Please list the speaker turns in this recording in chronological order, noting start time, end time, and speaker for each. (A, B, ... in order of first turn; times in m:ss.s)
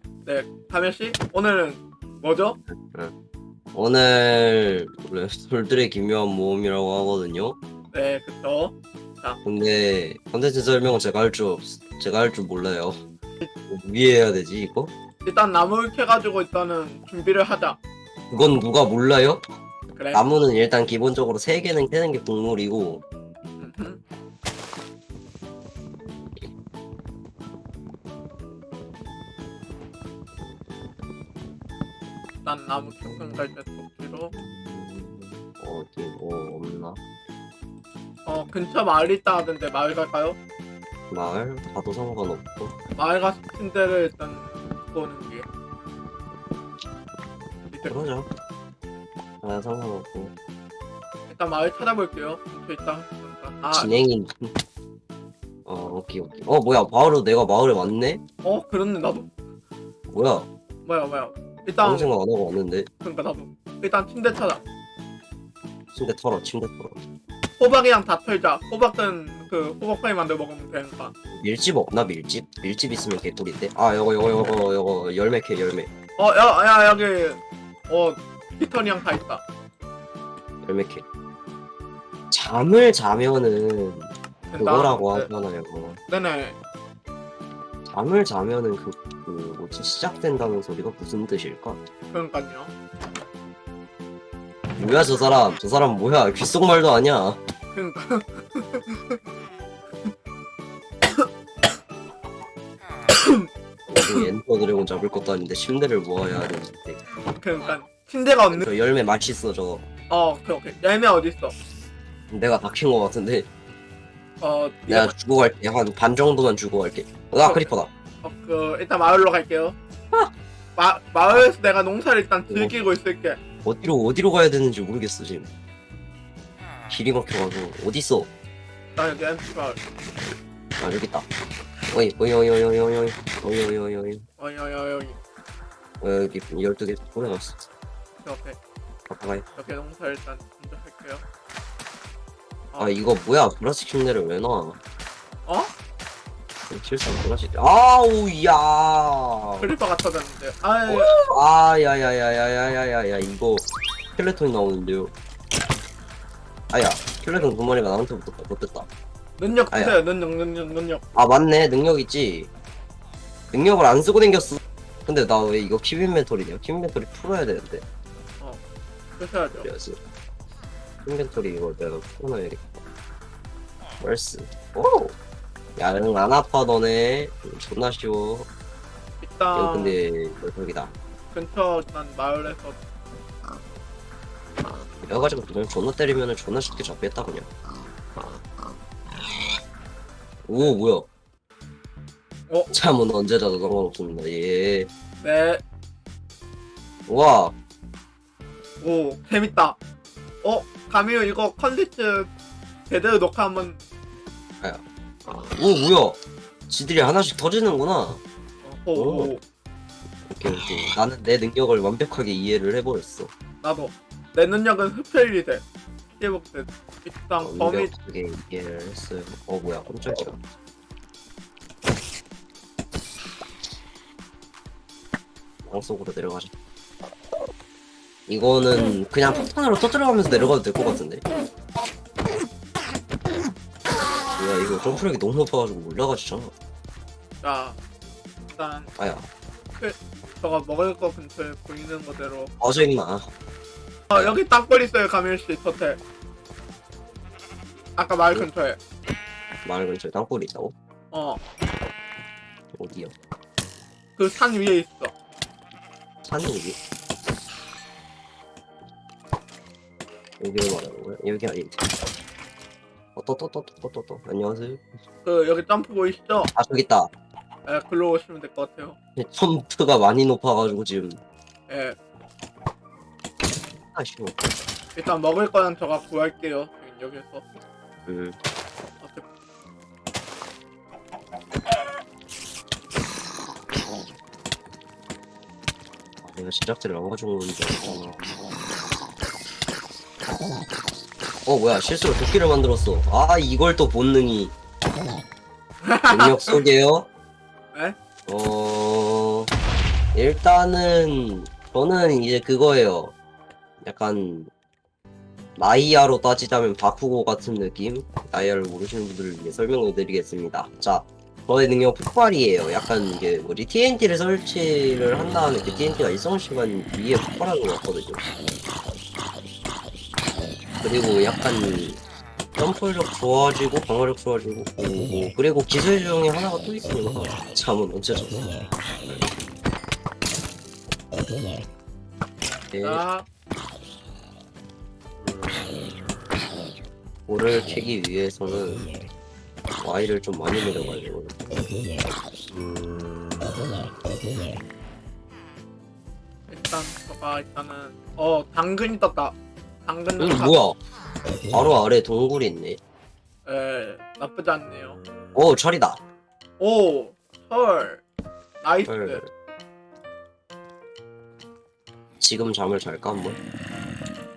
0:00.2-0:02.6 A
0:03.7-0:07.6 B
0:07.9-0:09.4 A
0:09.4-0:13.0 B
0:13.7-0:14.9 B
0:15.2-0:17.8 A
0:18.3-0:19.4 B
0:19.9-0:20.2 A
0:20.1-0:23.0 B
0:23.6-0:24.0 A
0:32.4-0:34.3 A
0:33.0-0:33.4 B
0:34.3-0:37.0 B
0:38.2-0:40.4 A
0:41.1-0:42.8 B
0:43.0-0:45.5 A
0:47.7-0:48.1 A
0:47.8-0:48.3 B
0:49.4-0:50.3 B
0:51.3-0:53.9 A
0:53.7-0:54.5 B
0:55.6-0:58.2 B
0:58.4-0:59.3 A
1:00.1-1:00.5 B
1:00.8-1:02.1 A
1:01.8-1:02.9 B
1:03.0-1:04.6 A
1:05.9-1:07.0 B
1:07.6-1:11.1 A
1:11.3-1:15.9 B
1:16.2-1:19.4 A
1:20.6-1:21.0 B
1:22.3-1:26.0 B
1:24.5-1:25.3 A
1:26.1-1:26.6 A
1:27.8-1:31.8 B
1:32.1-1:32.7 A
1:34.8-1:37.4 B
1:37.7-1:39.2 A
1:43.1-1:43.5 A
1:43.9-1:47.0 B
1:47.4-1:48.6 A
1:48.5-1:49.8 B
1:50.1-1:51.5 A
1:52.3-1:53.5 B
1:54.4-1:55.1 A
1:54.9-1:57.9 B
1:57.4-1:57.7 A
1:58.2-1:59.8 A
2:00.8-2:03.4 A
2:02.5-2:02.7 B
2:03.6-2:05.5 B
2:06.9-2:08.3 B
2:09.0-2:09.8 A
2:10.8-2:11.2 B
2:11.9-2:14.2 B
2:14.4-2:15.2 A
2:16.0-2:17.7 B
2:18.2-2:18.6 A
2:19.1-2:19.4 B
2:19.5-2:21.2 A
2:22.8-2:24.8 B
2:25.4-2:25.7 A
2:26.7-2:29.7 B
2:29.6-2:31.3 A
2:30.9-2:35.1 B
2:36.7-2:38.9 B
2:39.4-2:41.0 A
2:39.7-2:40.0 B
2:41.1-2:42.5 B
2:43.5-2:47.8 B
2:49.2-2:49.7 A
2:49.6-2:50.0 B
2:51.0-2:52.8 B
2:54.0-2:55.1 B
2:55.8-2:58.5 B
2:59.2-3:00.0 A
2:59.5-3:00.9 B
3:01.3-3:02.8 A
3:05.0-3:07.5 B
3:10.4-3:11.1 B
3:12.7-3:14.9 B
3:15.2-3:15.6 A
3:17.1-3:17.5 B
3:18.8-3:19.8 A
3:20.4-3:22.3 A
3:22.9-3:23.8 A
3:24.6-3:28.2 B
3:28.6-3:29.4 A
3:28.9-3:29.3 B
3:30.3-3:33.3 B
3:33.6-3:37.9 A
3:37.4-3:40.4 B
3:45.7-3:46.5 B
3:48.3-3:51.2 B
3:54.4-3:56.5 B
3:57.4-3:57.8 A
3:58.6-3:58.9 A
3:59.0-3:59.2 B
3:59.7-4:02.5 A
4:02.6-4:03.3 B
4:04.1-4:06.0 A
4:08.0-4:08.8 A
4:09.6-4:10.7 B
4:11.1-4:11.4 A
4:12.7-4:13.1 B
4:14.2-4:15.1 A
4:16.2-4:16.8 B
4:20.4-4:21.9 B
4:23.2-4:24.8 B
4:25.2-4:26.5 A
4:26.6-4:27.1 B
4:27.6-4:29.0 A
4:29.2-4:31.2 B
4:31.7-4:32.0 A
4:33.9-4:34.5 B
4:34.9-4:37.5 A
4:38.1-4:38.4 B
4:39.0-4:39.2 A
4:46.2-4:48.3 B
4:51.4-4:54.5 B
4:55.8-4:56.6 A
4:56.1-4:57.1 B
4:58.3-4:59.5 B
5:00.1-5:03.1 B
5:03.8-5:04.5 B
5:05.6-5:18.3 B
5:20.8-5:22.0 B
5:22.6-5:28.4 B
5:29.0-5:29.3 B
5:32.7-5:33.0 B
5:32.8-5:33.2 A
5:37.3-5:38.9 B
5:39.8-5:41.4 B
5:46.5-5:50.6 A
5:50.2-5:50.8 B
5:51.5-5:52.8 B
5:53.4-5:55.0 A
5:55.3-5:56.0 B
5:56.6-5:58.0 A
5:58.6-5:59.2 A
5:58.8-5:59.3 B
6:02.2-6:03.4 B